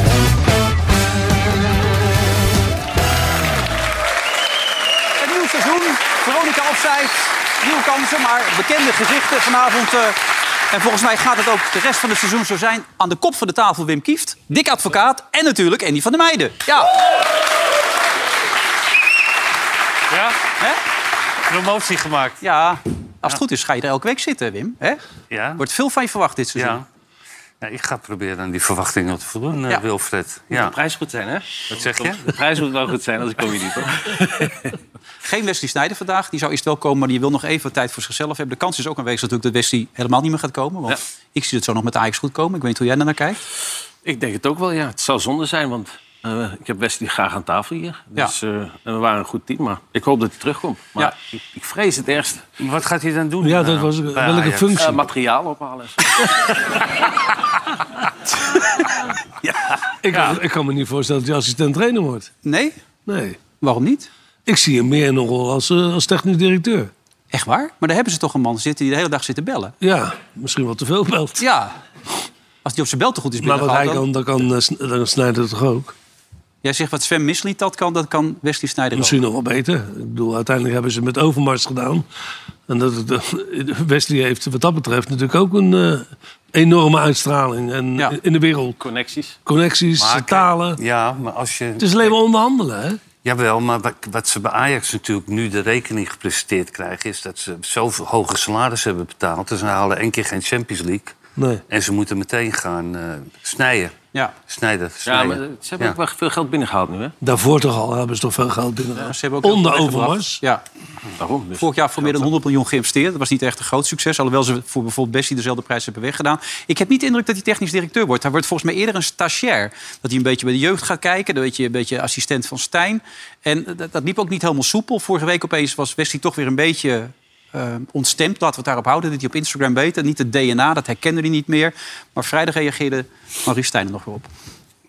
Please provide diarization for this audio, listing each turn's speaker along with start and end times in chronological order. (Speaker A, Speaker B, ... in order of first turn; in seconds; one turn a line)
Speaker A: 5.2-17.0
Speaker B: 20.1-20.4
Speaker B: 21.5-22.4
Speaker A: 22.4-25.0
Speaker B: 25.3-25.6
Speaker A: 25.6-26.8
Speaker B: 26.6-26.8
Speaker B: 27.6-30.8
Speaker C: 30.5-34.7
Speaker B: 31.7-32.4
Speaker A: 35.2-43.4
Speaker C: 44.0-52.4
Speaker B: 52.6-54.9
Speaker D: 53.4-55.0
Speaker C: 54.8-56.0
Speaker D: 56.2-56.5
Speaker C: 59.4-59.8
Speaker D: 60.0-62.3
Speaker A: 62.4-62.8
Speaker D: 63.0-63.4
Speaker A: 63.6-64.1
Speaker D: 64.5-66.9
Speaker A: 67.3-69.8
Speaker D: 69.8-71.4
Speaker A: 71.4-71.7
Speaker A: 72.6-74.0
Speaker D: 73.4-75.9
Speaker A: 76.6-79.2
Speaker D: 78.9-82.0
Speaker D: 82.7-88.8
Speaker C: 88.8-89.4
Speaker D: 89.4-90.8
Speaker B: 90.0-92.1
Speaker D: 91.8-93.0
Speaker B: 93.2-101.1
Speaker D: 101.4-101.6
Speaker B: 101.7-103.9
Speaker B: 104.5-106.0
Speaker C: 105.0-107.1
Speaker D: 107.2-110.4
Speaker A: 109.0-110.6
Speaker C: 111.2-112.3
Speaker A: 111.6-134.3